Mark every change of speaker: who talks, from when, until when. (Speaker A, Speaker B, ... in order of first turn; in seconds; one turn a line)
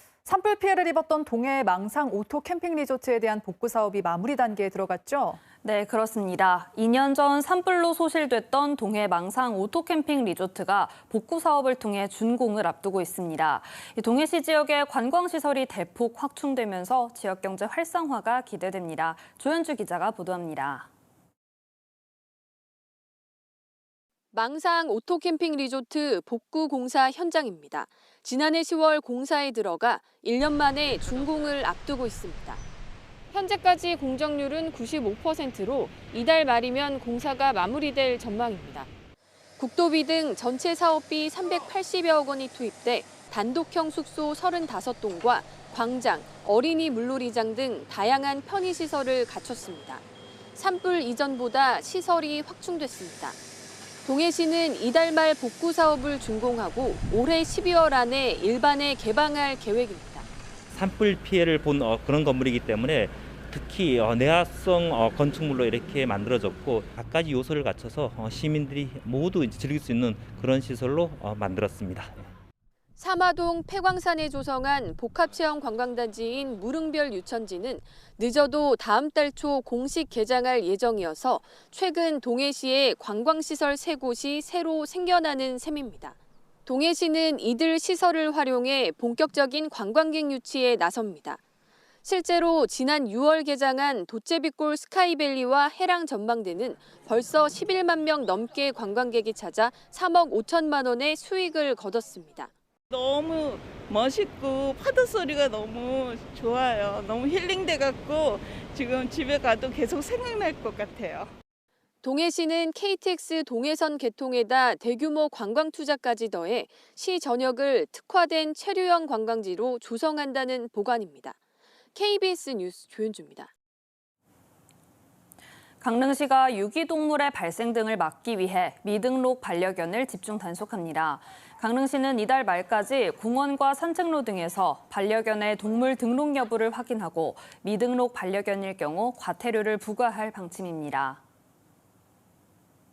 Speaker A: 0.2-5.4
Speaker B: 5.6-20.9
Speaker C: 24.3-32.6
Speaker C: 33.3-38.9
Speaker C: 39.6-50.0
Speaker C: 50.5-53.4
Speaker C: 54.0-60.3
Speaker D: 60.7-72.3
Speaker C: 73.0-91.4
Speaker C: 92.0-102.5
Speaker E: 102.9-111.3
Speaker C: 112.0-121.4
Speaker C: 121.9-123.5
Speaker B: 125.8-141.2